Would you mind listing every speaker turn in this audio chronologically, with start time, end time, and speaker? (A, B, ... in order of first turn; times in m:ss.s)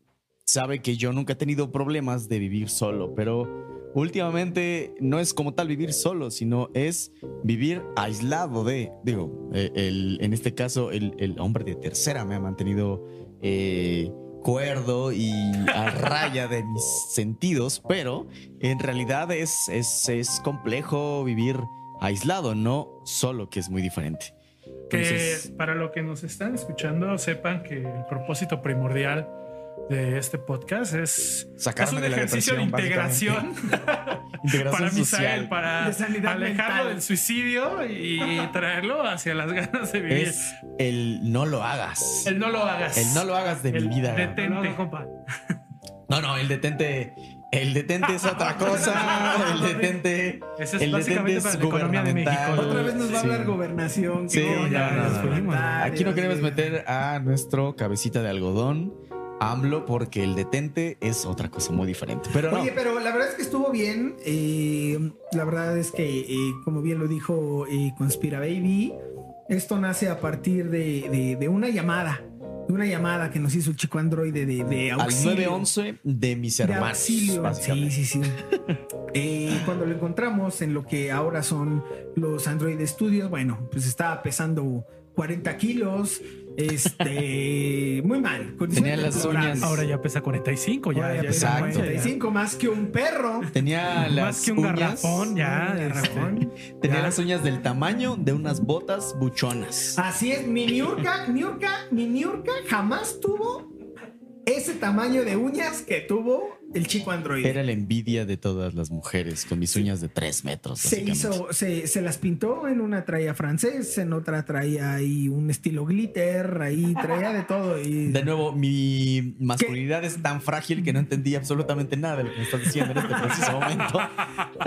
0:00.5-0:24.3 A
0:24.9-0:25.5 A
0:24.9-0:29.3 B
0:29.9-0:40.5 B
0:31.6-0:33.5 A
0:34.4-0:35.5 A
0:35.8-0:37.0 C
0:40.1-0:42.4 A
0:42.2-0:44.8 B
0:42.9-0:44.4 A
0:44.4-0:45.1 D
0:46.1-0:53.6 A
0:48.0-0:49.9 B
0:48.7-0:49.6 D
0:50.6-0:53.0 D
0:52.5-0:56.7 C
0:54.3-1:02.7 A
0:54.3-0:55.8 D
1:02.5-1:09.0 C
1:09.5-1:15.7 C
1:14.9-1:18.0 A
1:16.6-1:18.4 C
1:19.1-1:29.8 C
1:28.7-1:29.8 A
1:29.0-1:32.2 D
1:30.9-1:33.5 C
1:31.2-1:32.0 A
1:33.5-1:35.4 A
1:34.0-1:37.2 D
1:35.4-1:36.5 C
1:36.8-1:40.0 A
1:40.0-1:43.7 C
1:44.5-1:47.6 C
1:47.4-1:51.4 A
1:50.8-1:58.3 C
1:58.1-2:04.2 A